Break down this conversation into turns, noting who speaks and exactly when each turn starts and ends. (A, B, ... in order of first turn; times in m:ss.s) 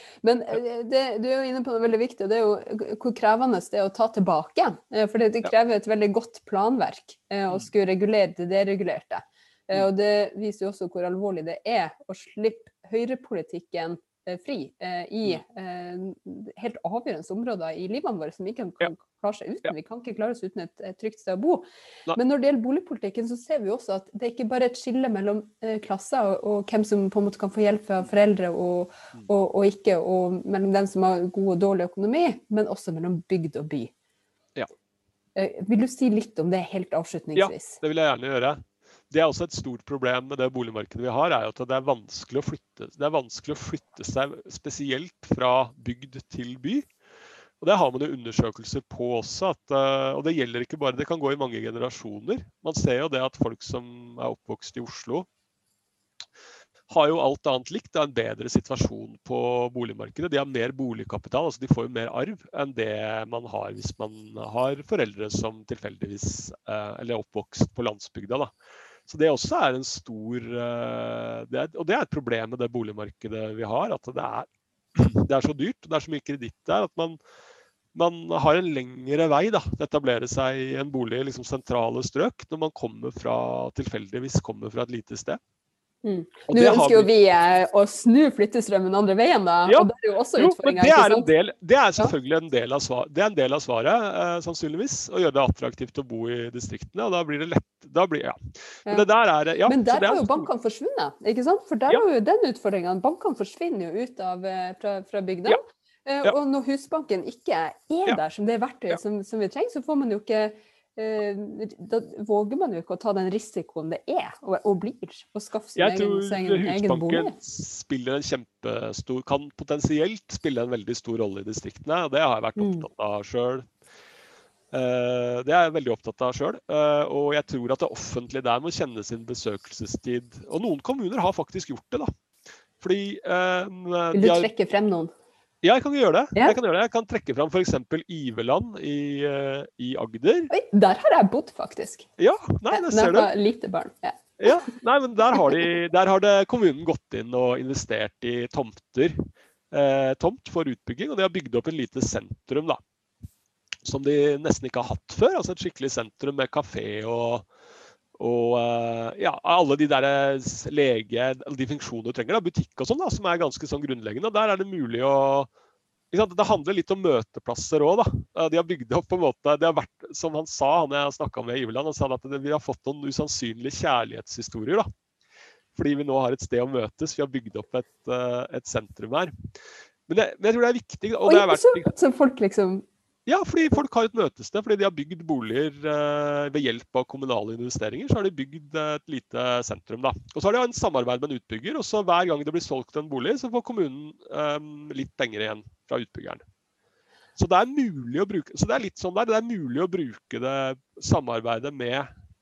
0:00.2-0:33.9 A
0:35.4-0:37.8 A
0:37.4-0:46.9 B
0:47.6-0:55.3 B
0:56.9-1:08.5 B
1:09.1-1:17.2 B
1:17.9-1:25.4 B
1:26.0-1:31.3 A
1:26.5-1:27.1 B
1:29.6-1:40.5 B
1:39.7-1:57.3 A
1:55.8-2:03.7 B
2:02.6-2:02.9 A
2:04.7-2:12.1 B
2:12.8-2:14.5 B
2:14.1-2:15.1 A
2:15.6-2:20.5 B
2:20.5-2:22.0 A
2:22.2-2:23.3 B
2:22.7-2:24.5 A
2:24.4-2:29.2 B
2:25.4-2:25.7 A
2:29.7-2:32.8 B
2:33.8-2:37.5 B
2:38.2-2:45.5 B
2:46.1-2:54.9 B
2:55.7-2:59.3 B
3:00.1-3:01.9 B
3:01.2-3:02.8 A
3:03.2-3:16.4 B
3:17.4-3:22.1 B